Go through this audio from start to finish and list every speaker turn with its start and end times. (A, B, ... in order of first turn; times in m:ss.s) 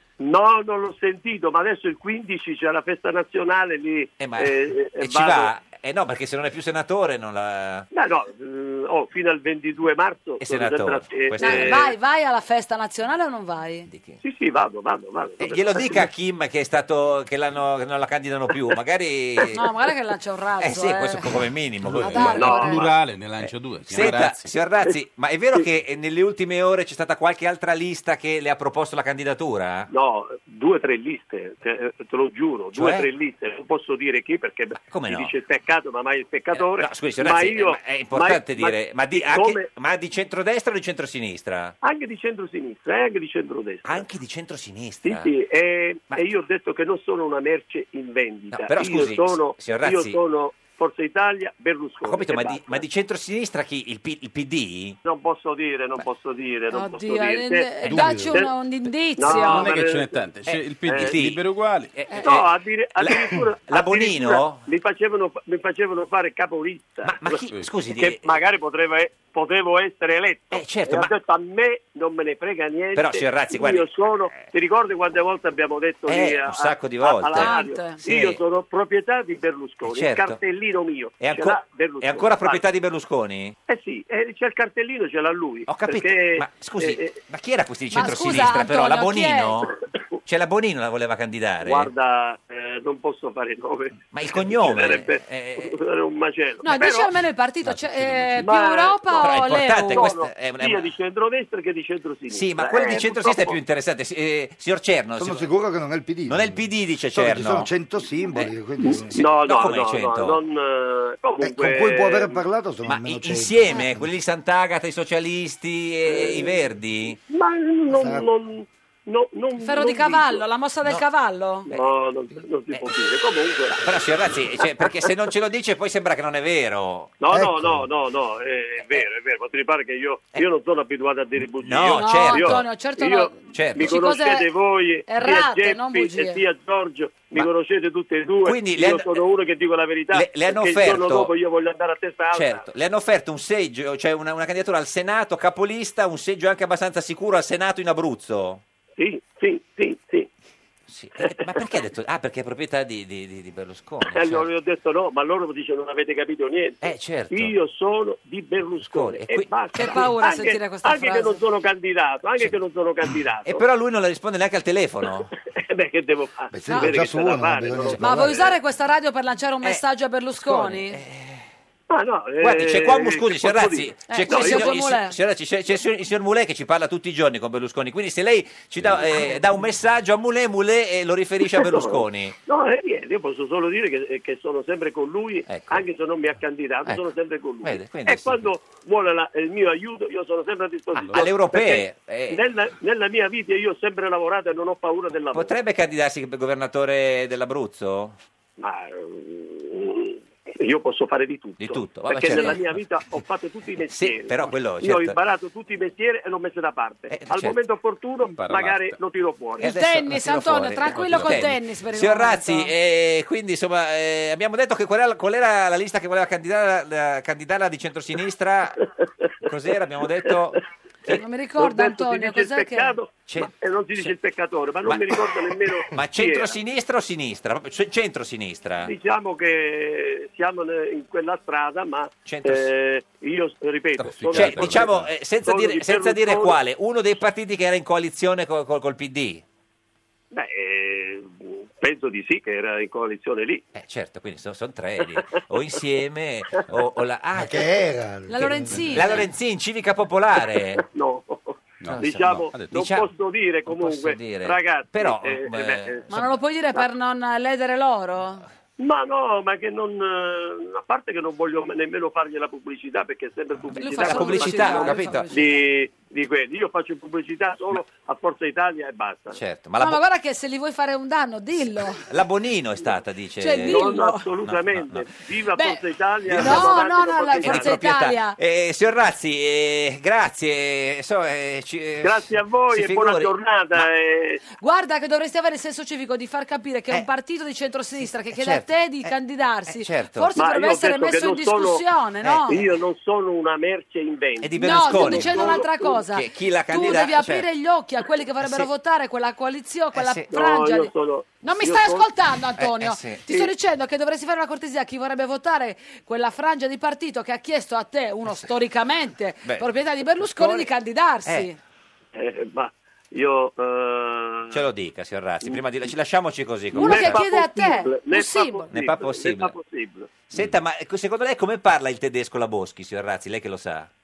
0:00.2-0:05.5 A
0:04.2-0:07.9 B
0:07.9-0:11.9 A
0:10.4-0:11.9 B
0:11.4-0:13.9 C
0:13.9-0:14.2 B
0:14.2-0:16.1 A
0:15.4-0:19.7 B
0:19.5-0:22.8 C
0:20.6-0:29.9 B
0:21.8-0:24.5 D
0:22.4-0:22.7 A
0:29.9-0:39.7 A
0:32.7-0:33.1 B
0:34.8-0:35.4 B
0:36.5-0:41.7 B
0:41.8-0:44.0 A
0:43.8-0:45.3 B
0:45.0-0:52.8 A
0:48.5-0:50.2 B
0:52.0-0:55.0 B
0:55.0-0:58.5 A
0:56.7-0:59.7 C
0:57.9-0:58.3 D
0:59.2-1:00.1 A
0:59.3-1:01.9 D
1:00.4-1:04.6 B
1:00.8-1:01.2 A
1:02.2-1:22.6 A
1:07.0-1:08.3 B
1:10.5-1:11.1 B
1:12.9-1:14.4 B
1:16.0-1:18.4 B
1:17.3-1:18.0 C
1:19.8-1:20.4 B
1:21.2-1:23.5 B
1:23.7-1:27.1 A
1:25.7-1:29.7 B
1:27.9-1:29.6 C
1:30.2-1:31.9 B
1:31.6-1:37.1 A
1:34.1-1:35.8 B
1:36.6-1:40.1 C
1:37.6-1:38.5 D
1:38.4-1:39.4 A
1:39.1-1:40.9 B
1:39.9-1:43.6 A
1:42.3-1:45.5 B
1:45.2-1:49.2 E
1:46.3-1:47.7 B
1:48.8-1:52.4 A
1:49.1-1:50.4 B
1:51.4-1:54.1 E
1:52.8-1:57.2 B
1:56.0-2:00.4 A
1:57.9-1:58.3 E
1:59.6-2:01.7 C
2:01.7-2:04.0 A
2:03.8-2:07.1 B
2:04.6-2:04.9 A
2:07.2-2:22.6 A
2:07.3-2:07.8 E
2:11.6-2:12.7 B
2:11.9-2:14.5 C
2:13.5-2:14.0 B
2:15.0-2:16.4 C
2:18.4-2:19.2 B
2:20.1-2:21.3 B
2:22.3-2:28.6 B
2:29.0-2:30.3 A
2:30.9-2:34.5 B
2:31.2-2:31.6 A
2:34.0-2:43.6 A
2:36.8-2:37.6 B
2:38.9-2:40.1 B
2:39.7-2:41.4 C
2:43.4-2:45.3 B
2:45.2-2:48.5 A
2:46.5-2:48.4 E
2:48.0-2:51.0 C
2:50.4-2:51.4 B
2:51.9-2:54.8 A
2:52.4-3:02.3 B
2:54.1-2:55.2 C
3:01.6-3:15.5 A
3:05.5-3:05.8 B
3:06.8-3:07.1 B
3:07.6-3:08.5 B
3:10.9-3:12.4 B
3:15.3-3:18.2 B
3:18.6-3:29.7 A
3:21.6-3:23.2 B
3:22.3-3:22.6 C
3:23.8-3:25.2 B
3:27.1-3:27.6 B
3:28.2-3:29.0 D
3:29.6-3:32.7 C
3:29.6-3:38.8 B
3:30.9-3:31.3 D
3:39.4-3:41.2 B
3:40.2-3:40.6 A
3:41.1-3:43.0 C
3:41.1-3:46.6 A
3:43.3-3:44.2 B
3:44.8-3:48.9 B
3:48.8-3:54.9 A
3:52.2-3:52.7 B
3:54.0-3:55.1 D
3:54.0-3:59.4 B
3:55.4-3:56.6 A
4:00.3-4:03.6 A
4:03.7-4:07.7 B
4:07.3-4:09.0 E
4:08.3-4:09.2 C
4:08.4-4:10.8 B
4:08.8-4:09.2 D
4:10.8-4:16.2 A
4:11.8-4:12.8 D
4:12.0-4:13.1 B
4:13.6-4:16.2 B
4:16.1-4:18.4 C
4:18.8-4:29.4 A
4:23.7-4:25.5 C
4:23.7-4:25.3 B
4:29.3-4:30.0 B
4:29.8-4:32.0 C
4:32.0-4:35.1 B
4:33.4-4:34.2 C
4:33.6-4:37.8 A
4:35.6-4:38.4 C
4:36.2-4:43.9 B
4:42.0-4:44.4 A
4:44.6-4:52.6 C
4:48.3-4:49.1 B
4:49.6-4:50.3 B
4:50.3-4:51.8 A
4:52.2-4:52.8 B
4:52.5-4:56.0 A
4:54.4-4:57.5 B
4:54.6-5:11.6 C
4:58.4-4:58.7 B
4:59.9-5:00.3 B
5:00.3-5:02.1 A
5:02.6-5:03.2 B
5:10.3-5:10.7 B
5:11.2-5:11.5 B
5:12.1-5:14.7 A
5:14.5-5:17.2 B
5:16.7-5:18.7 C
5:16.7-5:20.1 A
5:18.7-5:19.6 B
5:20.3-5:23.9 B